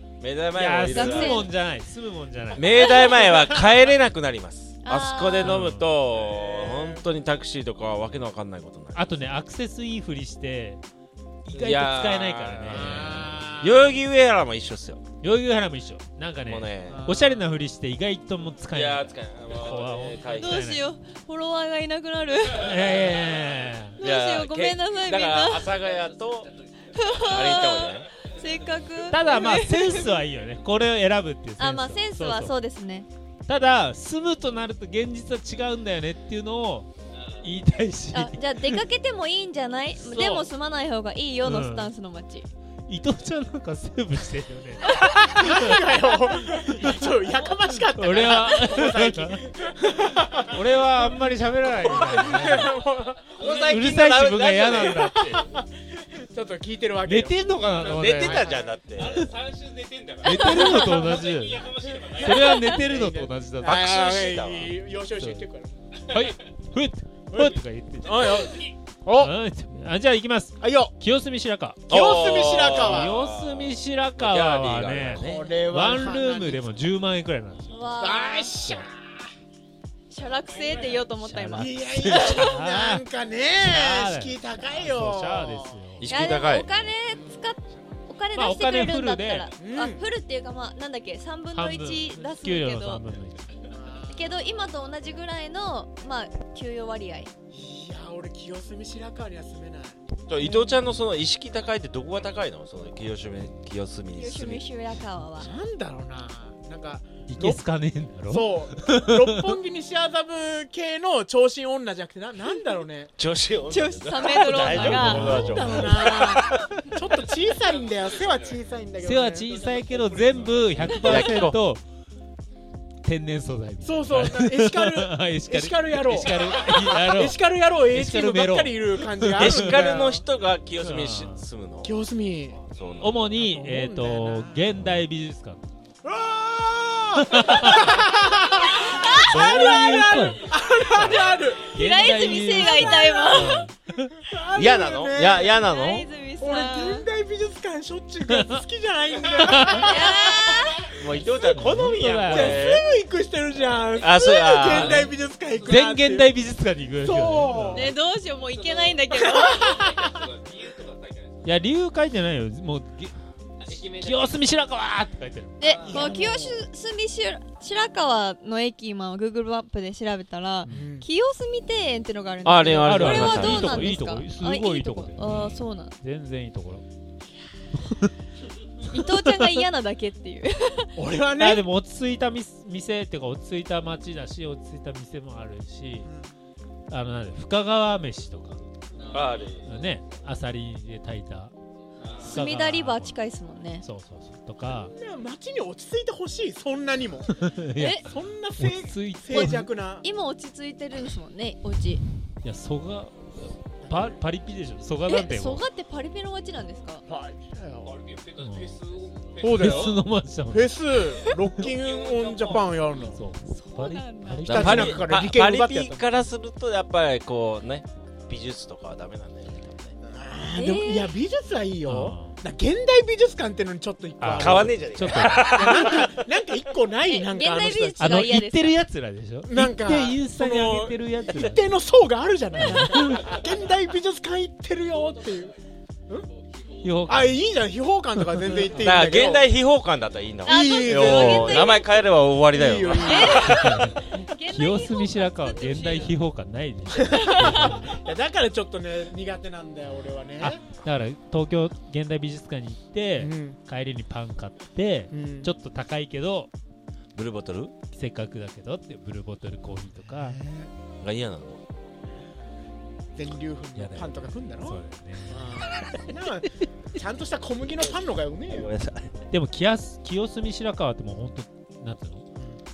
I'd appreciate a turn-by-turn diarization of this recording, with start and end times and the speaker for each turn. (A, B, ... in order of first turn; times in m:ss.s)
0:00.2-0:01.5 A
0:00.5-0:03.6 B
0:00.9-0:01.5 C
0:02.5-0:09.2 A
0:02.7-0:03.4 C
0:04.8-0:05.7 C
0:05.4-0:05.9 B
0:06.2-0:07.0 D
0:08.9-0:10.8 B
0:11.4-0:13.5 B
0:11.5-0:15.0 A
0:12.7-0:13.8 D
0:15.2-0:20.9 B
0:16.4-0:17.0 A
0:16.9-0:17.5 D
0:18.7-0:20.6 A
0:20.3-0:22.9 C
0:22.5-0:24.0 B
0:24.0-0:25.9 C
0:24.0-0:26.5 A
0:26.9-0:30.2 C
0:27.1-0:28.1 A
0:29.1-0:32.5 B
0:31.6-0:33.1 C
0:33.5-0:36.9 B
0:37.4-0:38.8 B
0:38.1-0:42.5 C
0:40.0-0:40.5 B
0:41.4-0:41.9 B
0:42.9-0:45.8 B
0:44.9-0:45.3 C
0:45.2-0:50.6 D
0:47.9-0:49.4 B
0:50.4-0:52.8 B
0:51.8-0:53.4 D
0:53.3-0:55.1 A
0:53.4-0:55.5 B
0:55.0-0:58.8 D
0:57.0-0:58.5 B
0:57.8-0:59.3 A
0:59.2-1:02.2 E
1:00.2-1:01.6 B
1:00.3-1:01.1 C
1:00.4-1:01.1 D
1:01.8-1:06.0 D
1:02.2-1:03.9 B
1:02.3-1:02.8 C
1:03.6-1:04.8 A
1:05.2-1:05.4 B
1:06.0-1:11.8 B
1:07.3-1:09.4 D
1:10.6-1:10.9 D
1:11.9-1:15.6 A
1:11.9-1:13.1 D
1:12.7-1:17.9 B
1:15.2-1:16.7 D
1:17.7-1:18.6 C
1:18.0-1:18.9 D
1:18.6-1:18.9 B
1:20.1-1:22.4 C
1:21.2-1:23.1 B
1:21.6-1:25.8 D
1:23.6-1:26.0 B
1:26.0-1:26.7 A
1:26.0-1:33.0 C
1:28.3-1:29.5 B
1:29.6-1:30.1 D
1:31.5-1:33.6 B
1:33.7-1:34.5 D
1:34.1-1:37.3 C
1:37.5-1:40.0 D
1:40.3-1:44.6 A
1:44.1-1:45.5 C
1:45.4-1:47.6 D
1:47.3-1:49.6 B
1:48.3-1:53.1 D
1:53.2-1:56.5 A
1:53.7-1:56.6 C
1:54.5-1:56.0 B
1:55.3-2:00.0 D
1:59.0-2:01.8 B
2:01.0-2:01.3 C
2:01.0-2:01.6 A
2:03.0-2:10.2 B
2:03.8-2:10.2 D
2:09.3-2:12.0 A
2:10.8-2:11.4 B
2:11.8-2:12.6 D
2:12.6-2:13.3 A
2:13.0-2:15.6 B
2:13.3-2:14.8 D
2:16.0-2:21.9 D
2:17.2-2:18.0 B
2:18.6-2:20.3 C
2:19.1-2:24.1 B
2:21.7-2:23.6 C
2:24.2-2:25.6 D
2:24.5-2:26.1 A
2:25.6-2:27.1 C
2:26.4-2:30.6 D
2:28.3-2:28.6 B
2:29.3-2:29.9 B
2:29.7-2:30.9 C
2:30.9-2:32.9 A
2:31.2-2:36.3 D
2:31.5-2:32.7 B
2:34.0-2:35.1 A
2:34.7-2:35.1 B
2:35.6-2:37.9 B
2:37.0-2:38.0 D
2:37.7-2:39.9 C
2:39.5-2:40.2 D
2:39.8-2:41.2 E
2:41.4-2:43.2 B
2:43.7-2:45.6 B
2:45.6-2:56.0 C
2:45.8-2:46.7 D
2:50.7-2:51.1 D
2:52.4-2:53.9 A
2:52.8-2:56.8 B
2:58.8-3:01.0 C
2:58.9-2:59.6 B
3:01.0-3:01.7 D
3:01.4-3:06.1 B
3:06.0-3:06.3 D
3:06.9-3:08.6 B
3:09.1-3:09.7 A
3:09.6-3:11.5 B
3:12.2-3:13.8 C
3:12.2-3:13.2 B
3:13.8-3:14.9 B
3:14.9-3:17.4 D
3:17.3-3:18.0 B
3:17.8-3:18.1 C
3:18.0-3:20.1 D
3:18.6-3:19.7 B
3:19.4-3:22.0 C
3:22.4-3:25.6 B
3:23.8-3:24.2 D
3:25.1-3:27.0 C
3:27.1-3:28.0 D
3:28.4-3:28.8 B
3:28.5-3:29.4 E
3:29.4-3:30.0 D
3:29.4-3:30.7 B
3:30.5-3:33.2 D
3:31.2-3:31.4 C
3:32.0-3:32.5 E
3:33.1-3:35.1 B
3:33.5-3:34.5 C
3:34.4-3:40.0 A
3:34.5-3:36.0 D
3:40.1-3:48.1 D
3:40.5-3:41.2 C
3:41.9-3:42.4 B
3:44.2-3:45.7 B
3:44.4-3:46.2 A
3:47.0-3:48.8 C
3:48.0-3:51.6 B
3:49.4-3:55.6 D
3:52.6-3:53.3 B
3:52.6-3:53.0 C
3:56.8-3:57.4 B
3:57.1-3:59.5 D
3:58.2-3:58.8 B
3:58.8-4:03.7 A
4:00.5-4:01.9 D
4:00.5-4:02.0 C
4:02.5-4:03.8 D
4:03.0-4:06.2 C
4:03.3-4:08.0 B
4:07.1-4:07.9 C
4:07.1-4:10.6 D
4:10.4-4:16.5 B
4:13.2-4:13.6 D
4:15.1-4:15.5 D
4:17.2-4:17.8 A
4:17.9-4:20.4 B
4:20.1-4:20.7 D
4:21.0-4:21.6 A
4:23.2-4:28.7 D
4:23.8-4:24.0 A
4:23.8-4:25.6 B
4:28.5-4:29.2 A
4:29.3-4:32.2 B